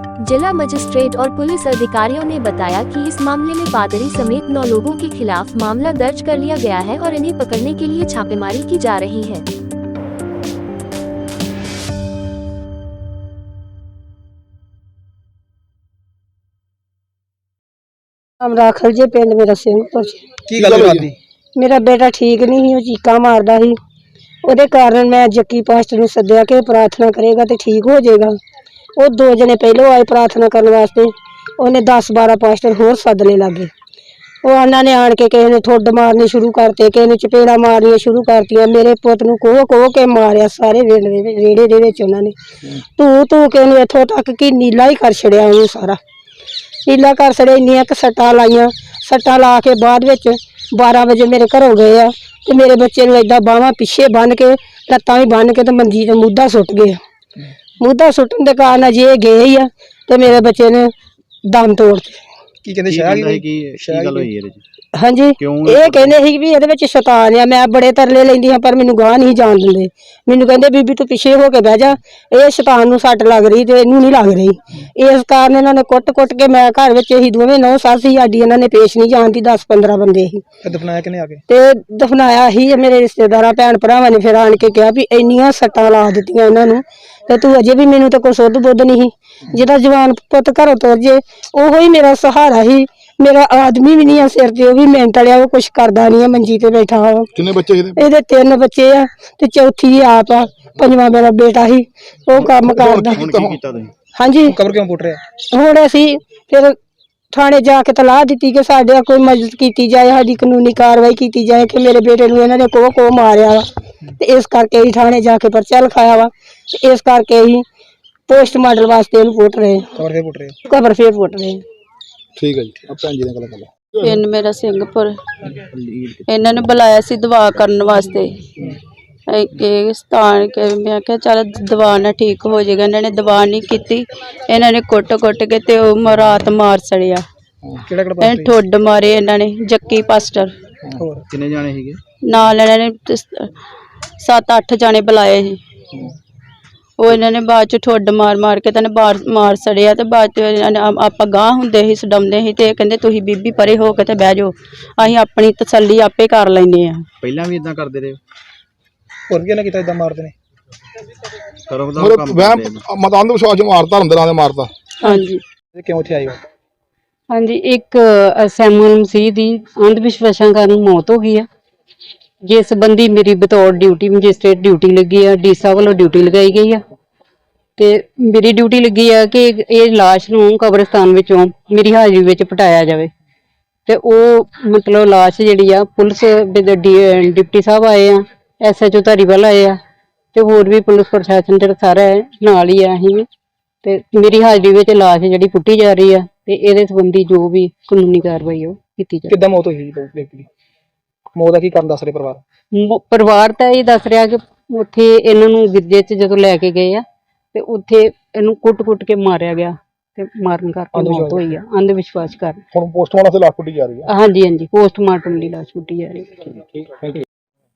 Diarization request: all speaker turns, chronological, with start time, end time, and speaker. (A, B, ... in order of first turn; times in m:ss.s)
0:00.2-0:09.4 A
0:18.4-0:20.4 B
0:20.5-0:21.2 C
0:20.6-0:21.1 D
0:21.6-0:23.8 B
0:24.4-0:28.4 B
0:29.0-0:33.7 B
0:34.4-0:42.4 B
0:43.0-0:46.0 B
0:46.9-0:57.0 B
0:57.8-1:00.9 B
1:01.5-1:02.2 B
1:02.6-1:04.3 C
1:02.9-1:04.6 E
1:05.0-1:20.4 B
1:05.4-1:06.1 E
1:20.6-1:21.4 C
1:21.5-1:37.3 B
1:37.4-1:38.0 D
1:38.0-1:43.2 B
1:42.5-1:43.6 D
1:43.2-1:43.9 E
1:44.2-1:44.6 B
1:44.5-1:45.2 C
1:45.5-1:46.8 B
1:47.3-1:53.7 B
1:54.2-1:57.6 B
1:58.3-1:59.9 B
2:00.0-2:00.6 C
2:00.7-2:01.6 B
2:02.4-2:04.2 D
2:04.0-2:05.2 F
2:05.7-2:06.2 E
2:06.3-2:08.5 F
2:09.3-2:17.3 F
2:17.8-2:18.6 C
2:18.2-2:20.6 F
2:21.0-2:21.2 C
2:21.3-2:22.0 E
2:22.2-2:23.5 F
2:24.2-2:25.6 F
2:27.0-2:37.1 F
2:37.2-2:38.2 E
2:39.3-2:40.3 C
2:41.7-2:42.8 E
2:42.0-2:44.7 D
2:45.0-2:45.4 F
2:45.7-2:46.4 C
2:47.3-2:51.5 G
2:52.4-2:56.8 G
2:57.8-3:03.1 G
3:03.9-3:09.8 G
3:10.4-3:13.3 G
3:13.8-3:19.4 G
3:19.3-3:20.5 C
3:21.4-3:22.4 C
3:22.7-3:32.6 G
3:30.9-3:31.4 C
3:32.7-3:34.0 D
3:34.1-3:36.4 G